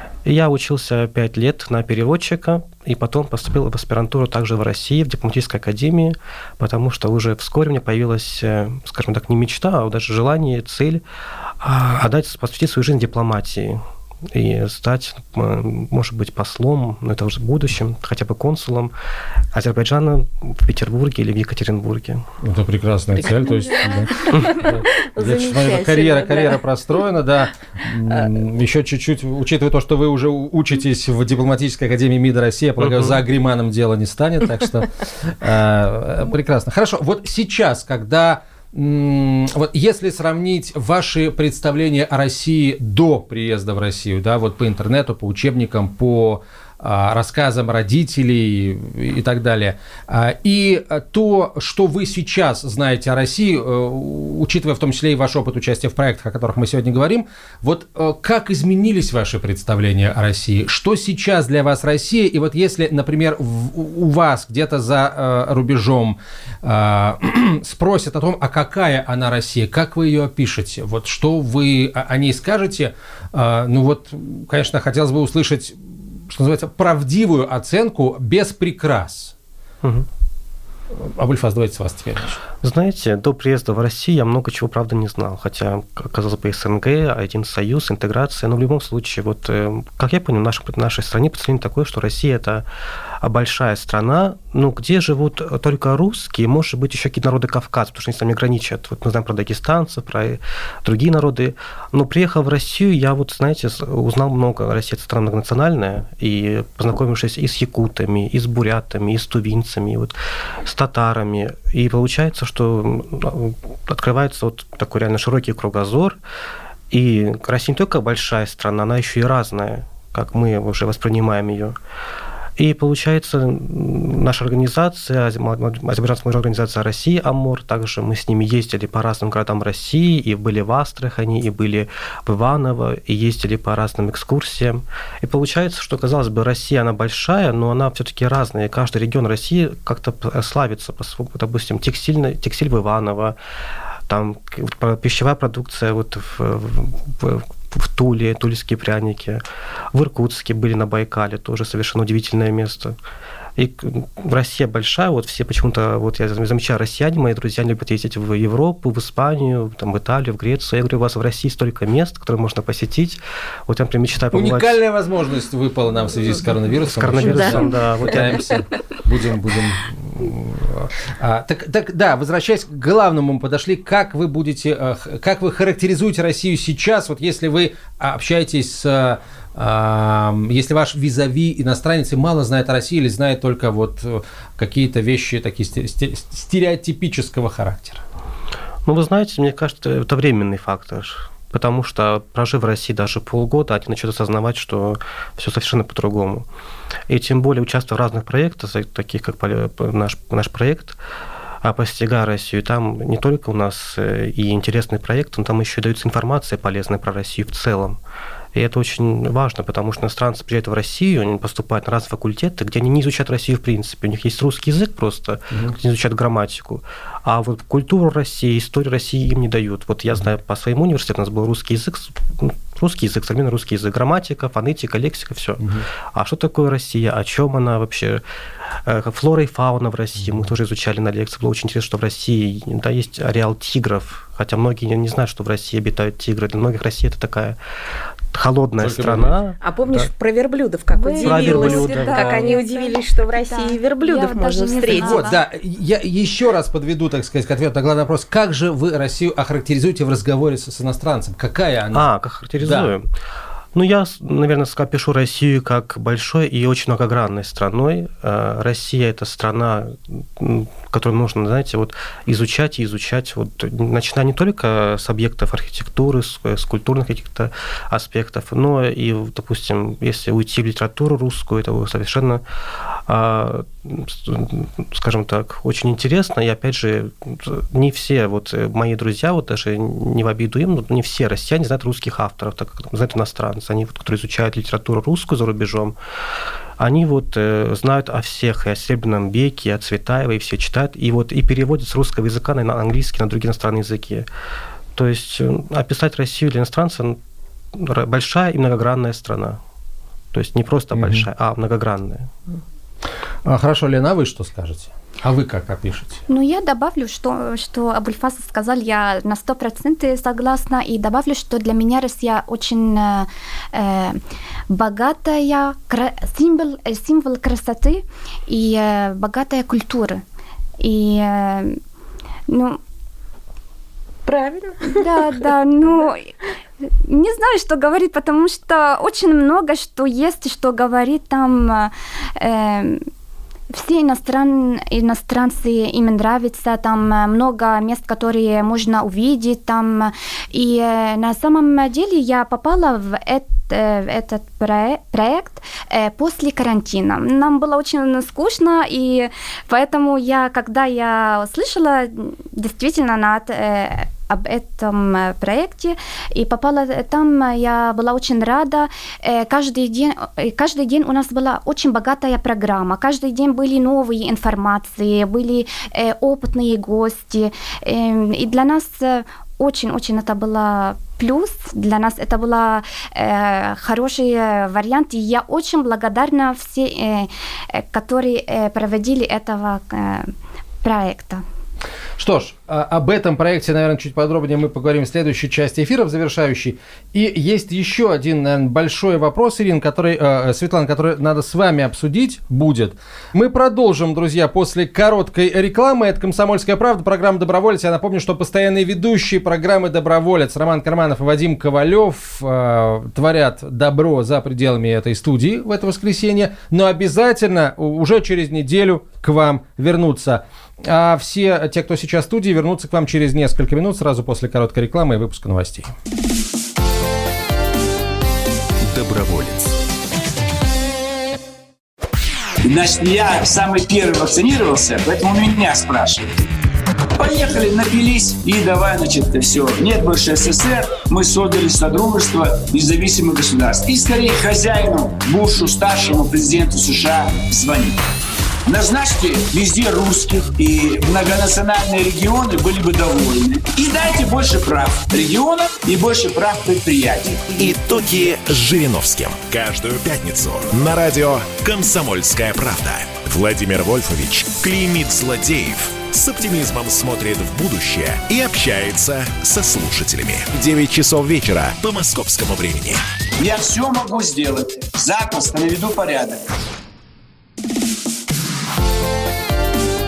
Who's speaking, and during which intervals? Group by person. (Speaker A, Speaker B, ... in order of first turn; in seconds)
Speaker A: 0.2-11.0, 11.6-18.9, 19.5-22.2, 32.8-33.2, 79.8-80.1, 82.6-92.7, 93.2-116.2, 116.9-121.8, 122.6-143.3, 144.1-153.0, 153.6-164.8, 166.9-168.6, 188.8-196.4, 197.1-201.0, 201.6-208.0, 208.5-228.2, 228.8-237.6, 238.3-240.1, 241.2-242.6, 251.9-253.1, 253.7-272.4, 273.1-286.0, 286.8-294.3, 294.9-297.2, 297.7-299.6, 300.3-302.3
Speaker B: 22.4-79.3, 81.0-82.4, 164.3-188.0, 238.8-239.4, 244.8-252.1, 252.6-252.9, 301.0-301.2, 303.4-306.2, 382.2-415.9
Speaker C: 24.2-26.6, 167.2-167.5, 239.6-245.3, 324.2-325.1
Speaker D: 240.9-245.4, 306.3-320.2, 320.8-321.8, 322.5-322.8, 324.9-326.3, 327.0-333.0, 333.7-380.3, 380.8-381.4
Speaker E: 422.6-426.4, 427.2-438.0, 438.7-447.7, 463.4-466.4
Speaker F: 447.5-463.0